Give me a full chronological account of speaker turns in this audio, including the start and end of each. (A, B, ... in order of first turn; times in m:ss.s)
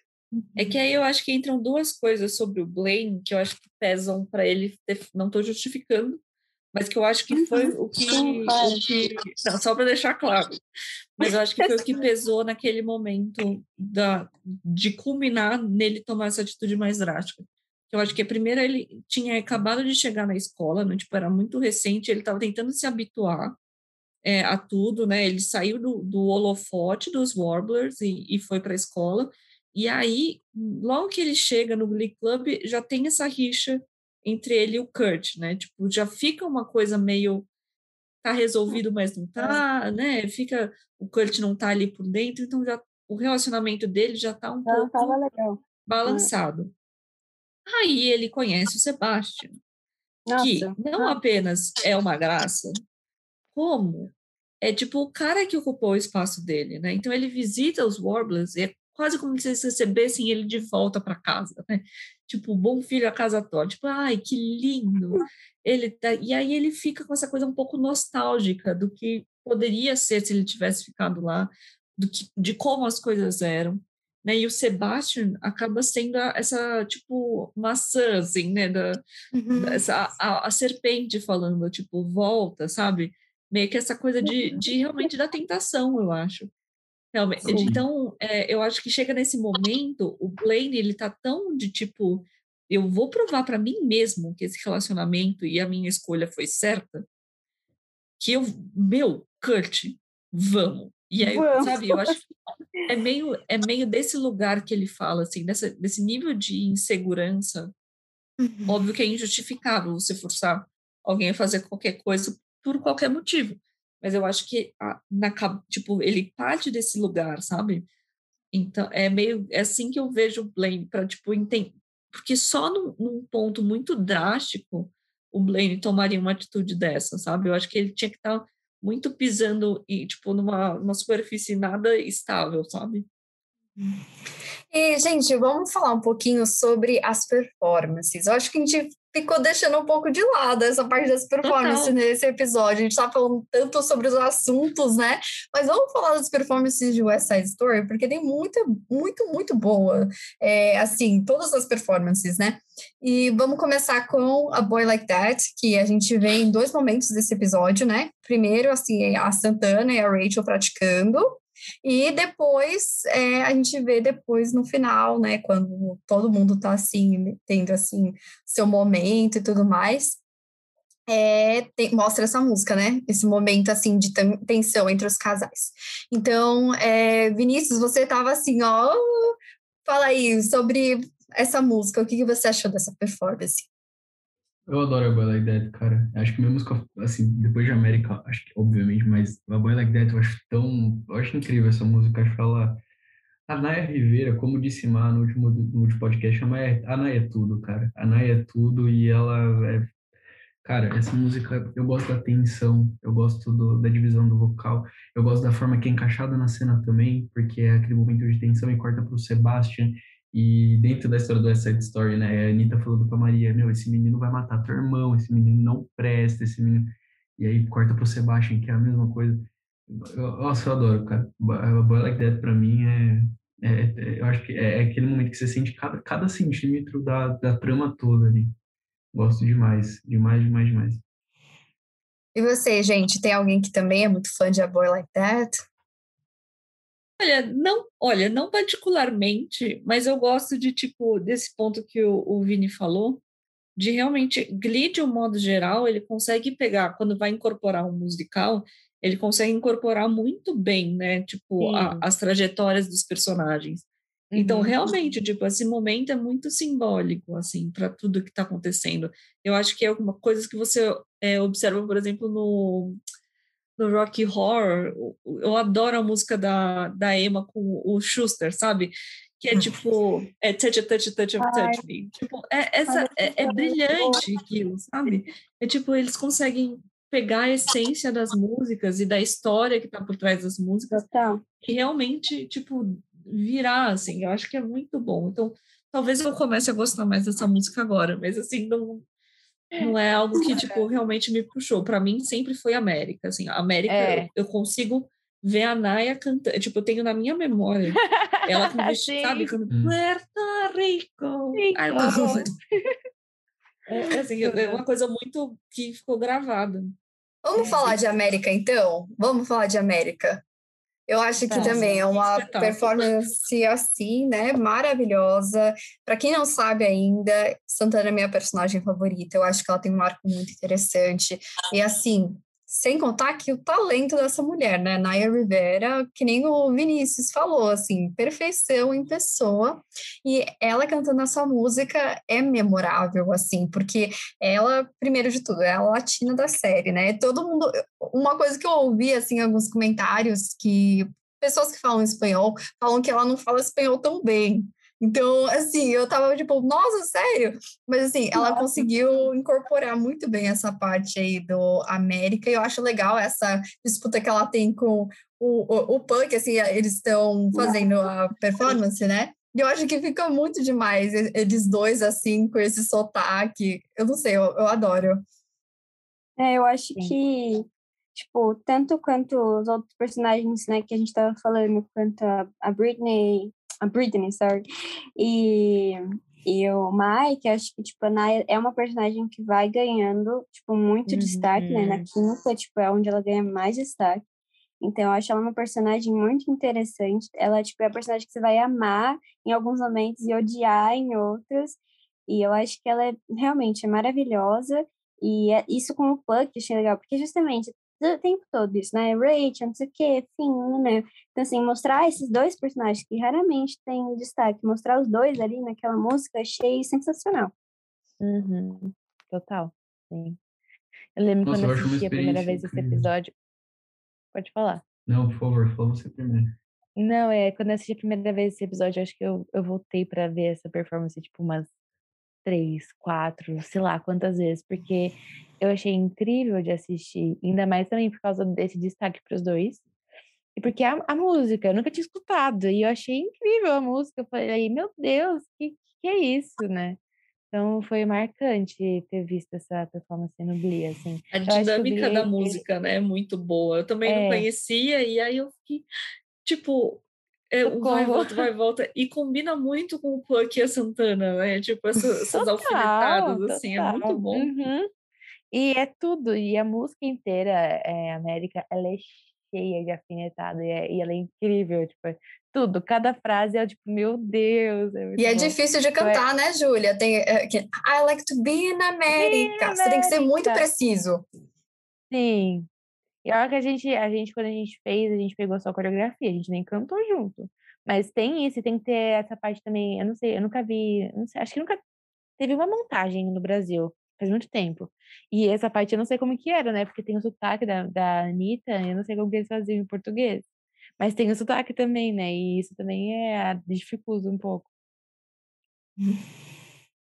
0:00.6-0:06.2 A
0:06.7-0:10.6 A
0:07.3-0:08.8 B
0:11.2-0:23.6 A
0:11.2-0:12.0 B
0:24.2-0:37.5 A
0:38.2-0:45.2 A
0:44.7-0:46.3 B
0:45.8-0:46.7 A
0:47.7-0:49.6 A
0:50.3-0:51.2 B
0:50.4-0:52.8 A
0:53.5-1:19.0 A
1:19.3-1:19.8 C
1:19.5-1:26.5 A
1:27.1-1:37.0 A
1:27.5-1:27.8 D
1:38.2-1:42.3 A
1:41.2-1:42.1 B
1:42.8-1:47.7 A
1:48.4-1:48.8 C
1:48.7-1:57.9 A
1:58.5-2:13.1 A
2:14.7-2:50.2 C
2:21.4-2:21.9 A
2:51.1-3:03.7 C
3:04.7-3:12.8 D
3:13.5-3:19.9 D
3:20.6-3:48.5 D
3:49.1-3:51.0 D
3:52.3-3:55.6 C
3:57.2-4:03.2 A
4:03.8-4:23.0 A
4:11.6-4:12.0 E
4:14.3-4:14.8 E
4:23.8-4:41.0 A
4:31.4-4:31.8 B
4:32.9-4:34.2 B
4:40.9-4:41.4 B
4:41.6-4:49.0 A
4:49.8-5:02.5 A
4:53.9-4:54.3 E
4:58.0-4:59.5 E
4:59.7-5:00.0 D
5:01.5-5:02.9 E
5:02.0-5:02.4 C
5:03.9-5:04.8 E
5:04.1-5:07.0 A
5:07.4-5:10.4 C
5:07.7-5:08.0 A
5:11.1-6:05.2 C
5:11.5-5:12.0 E
5:11.5-5:13.1 A
5:57.5-5:57.8 B
6:06.4-6:14.6 B
6:15.2-6:24.2 B
6:21.1-6:22.0 E
6:24.8-6:47.5 B
6:48.2-6:50.4 E
6:51.2-6:53.3 E
6:51.4-6:53.1 D
6:54.3-6:54.8 E
6:55.1-6:56.6 D
6:57.0-7:01.7 E
7:02.4-7:09.8 E
7:10.6-7:17.0 E
7:17.5-7:22.6 E
7:21.3-7:25.8 A
7:24.0-7:24.5 E
7:26.4-7:34.5 A
7:27.6-7:28.5 E
7:32.3-7:34.9 E
7:35.5-7:46.2 E
7:45.2-7:51.2 C
7:49.1-7:50.7 E
7:52.1-7:52.7 E
7:53.2-8:01.8 E
8:02.4-8:10.5 E
8:11.0-8:14.7 E